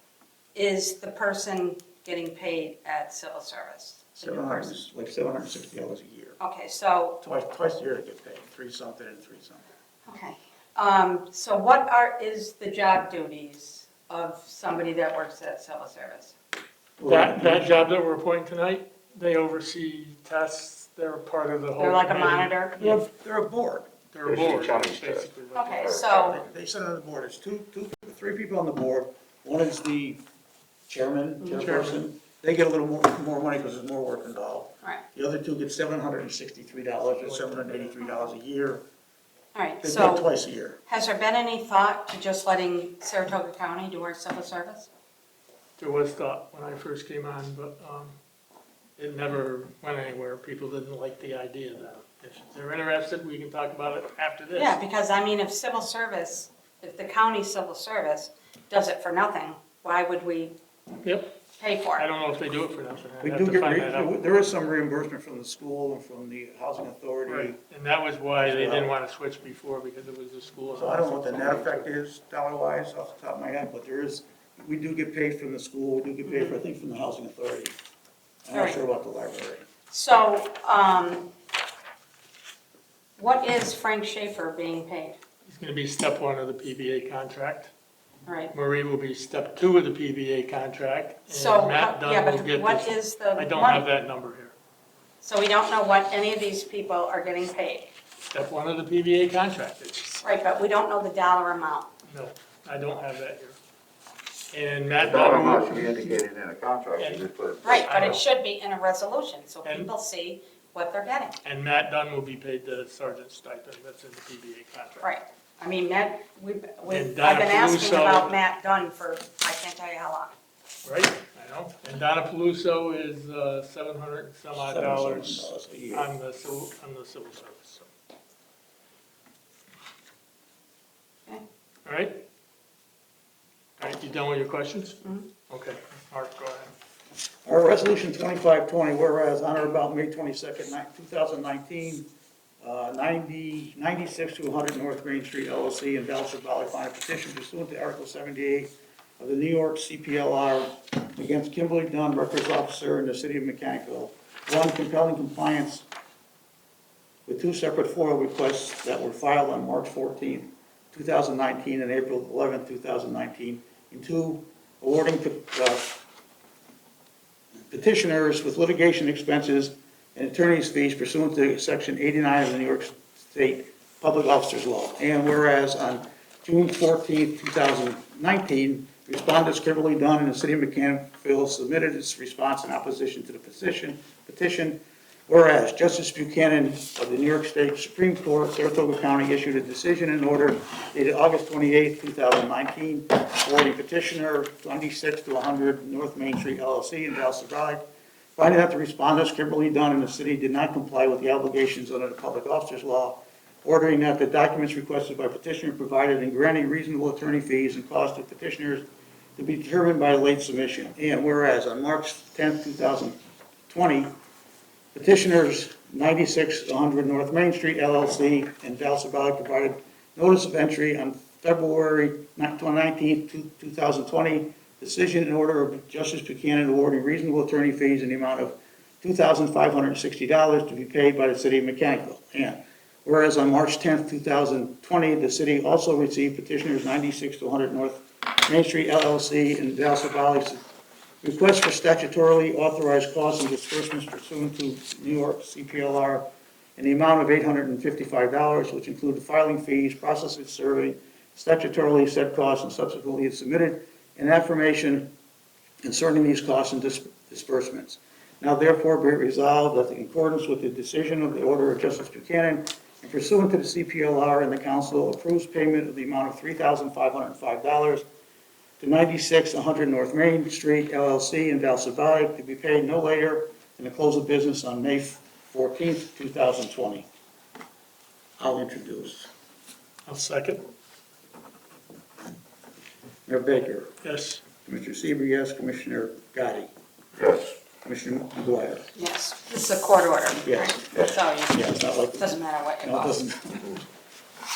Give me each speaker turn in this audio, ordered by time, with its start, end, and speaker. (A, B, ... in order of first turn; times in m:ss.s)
0:00.5-0:04.8 A
0:04.2-0:06.4 B
0:06.4-0:07.2 A
0:07.2-0:09.6 B
0:10.0-0:16.4 A
0:17.0-0:17.9 B
0:17.1-0:23.0 C
0:21.8-0:22.8 A
0:22.8-0:23.9 B
0:24.1-0:26.1 C
0:24.2-0:26.4 D
0:25.5-0:26.4 A
0:26.1-0:30.2 B
0:30.9-0:38.8 B
0:31.5-0:32.0 C
0:37.2-0:37.9 C
0:39.5-0:40.3 A
0:39.8-0:40.8 B
0:40.9-0:44.9 A
0:45.8-0:48.2 C
0:49.0-0:54.8 C
0:54.5-1:00.6 A
1:01.0-1:01.4 C
1:01.6-1:02.0 A
1:02.0-1:04.2 C
1:03.2-1:07.6 B
1:07.3-1:11.9 C
1:08.4-1:08.9 B
1:10.7-1:17.8 B
1:16.2-1:16.6 A
1:18.4-1:19.7 B
1:18.5-1:18.8 A
1:19.9-1:21.3 A
1:23.2-1:25.2 A
1:25.5-1:27.7 C
1:28.2-1:28.5 A
1:28.5-1:34.5 C
1:31.3-1:33.9 A
1:35.2-1:37.9 A
1:38.3-1:40.2 C
1:40.2-1:41.9 A
1:42.0-1:43.6 C
1:44.5-1:46.2 C
1:45.0-1:47.8 D
1:47.0-1:48.2 C
1:47.6-1:51.4 A
1:49.6-1:49.9 C
1:51.4-1:55.1 C
1:55.0-2:00.3 A
1:56.9-1:58.4 C
2:00.8-2:07.9 C
2:04.5-2:06.1 B
2:11.8-2:12.2 C
2:13.8-2:16.7 C
2:15.0-2:15.3 A
2:17.4-2:22.1 B
2:22.6-2:35.9 B
2:37.3-2:46.0 B
2:47.7-3:17.8 B
3:18.4-3:28.8 B
3:29.4-3:33.2 B
3:33.7-3:34.1 B
3:34.9-4:00.6 B
4:01.2-4:06.2 B
4:06.8-4:15.1 B
4:15.8-4:28.0 B
4:28.8-4:37.1 B
4:38.4-4:39.3 B
4:40.1-4:40.6 C
4:43.3-4:43.9 B
4:44.0-4:44.4 C
4:44.6-4:46.7 B
4:47.2-4:47.5 D
4:47.8-4:48.9 B
4:48.9-4:53.2 A
4:50.4-4:53.8 B